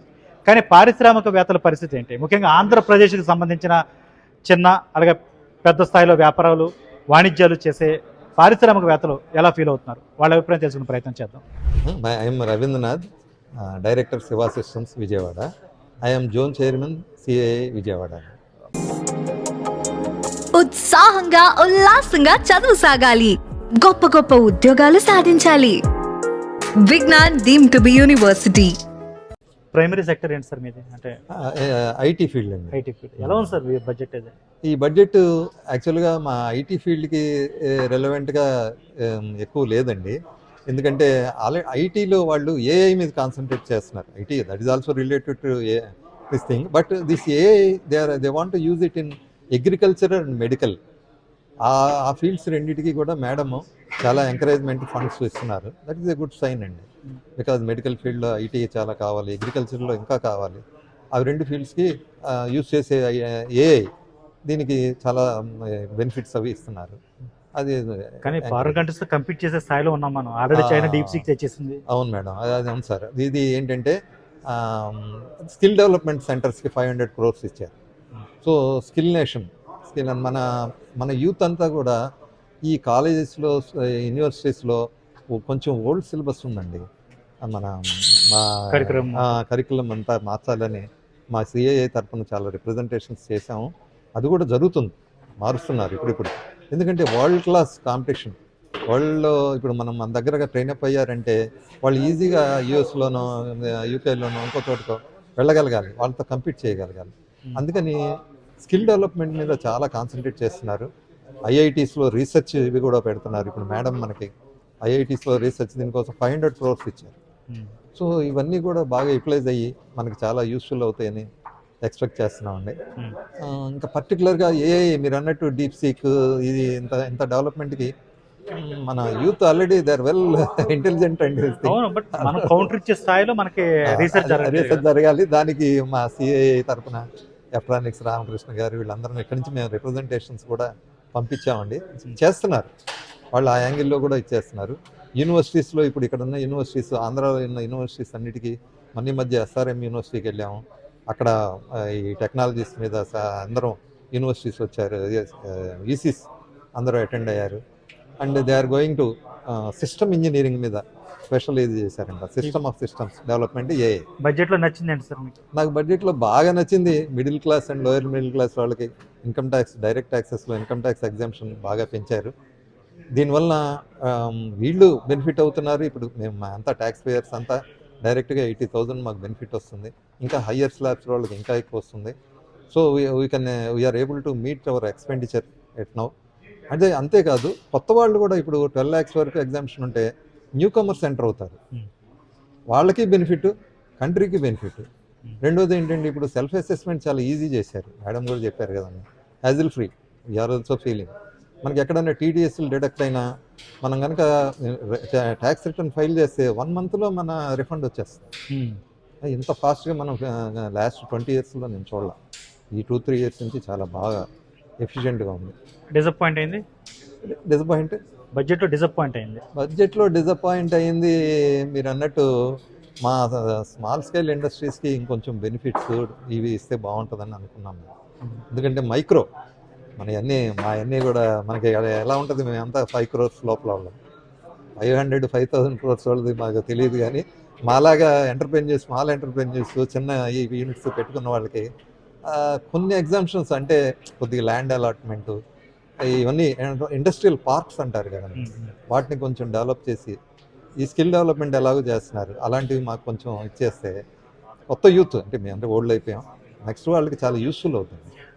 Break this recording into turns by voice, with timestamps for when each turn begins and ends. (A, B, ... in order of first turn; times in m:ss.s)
0:00.5-0:03.8 A
0:04.5-0:11.4 A
0:11.8-0:13.0 B
0:13.6-0:15.5 B
0:16.0-0:18.3 B
0:20.5-0:25.8 C
0:26.8-0:28.8 C
0:29.7-0:31.2 A
0:31.4-0:33.6 B
0:32.7-0:34.4 A
0:34.7-0:38.5 B
0:39.0-0:40.2 B
0:40.7-0:50.8 B
0:51.7-0:56.9 B
0:57.4-1:00.6 B
1:01.1-1:03.9 B
1:04.5-1:07.0 B
1:07.6-1:08.8 B
1:08.2-1:11.8 A
1:10.5-1:11.3 B
1:11.9-1:14.0 B
1:14.5-1:17.7 B
1:18.4-1:22.0 B
1:22.7-1:24.8 B
1:25.3-1:26.8 B
1:27.4-1:38.4 B
1:28.7-1:29.2 A
1:38.9-1:48.0 B
1:48.6-1:50.9 B
1:51.5-1:54.3 B
1:54.8-1:57.2 B
1:58.0-2:01.3 B
2:01.8-2:02.8 B
2:03.4-2:07.9 B
2:08.5-2:12.7 B
2:11.6-2:14.8 A
2:13.9-2:17.0 B
2:17.6-2:22.7 B
2:23.3-2:36.3 B
2:36.8-2:37.6 B
2:38.2-2:44.0 B
2:44.2-2:45.4 A
2:45.5-2:52.3 B
2:53.2-3:02.2 B
3:02.7-3:06.1 B
3:06.7-3:11.6 B
3:12.7-3:14.9 B
3:15.4-3:21.1 B
3:21.6-3:23.2 B
3:23.8-3:28.2 B
3:28.5-3:28.8 A
3:29.2-3:32.2 B
3:32.7-3:34.2 B
3:34.8-3:35.5 B
3:36.0-3:36.6 A
3:37.2-3:38.0 B
3:38.4-3:39.4 A
3:39.6-3:42.3 B
3:43.0-3:47.9 B
3:48.5-3:49.3 B
3:50.0-3:54.0 B
3:54.8-4:01.7 B
4:02.3-4:05.4 B
4:06.0-4:10.2 B
4:08.4-4:08.7 A
4:10.8-4:14.0 B
4:14.7-4:18.1 B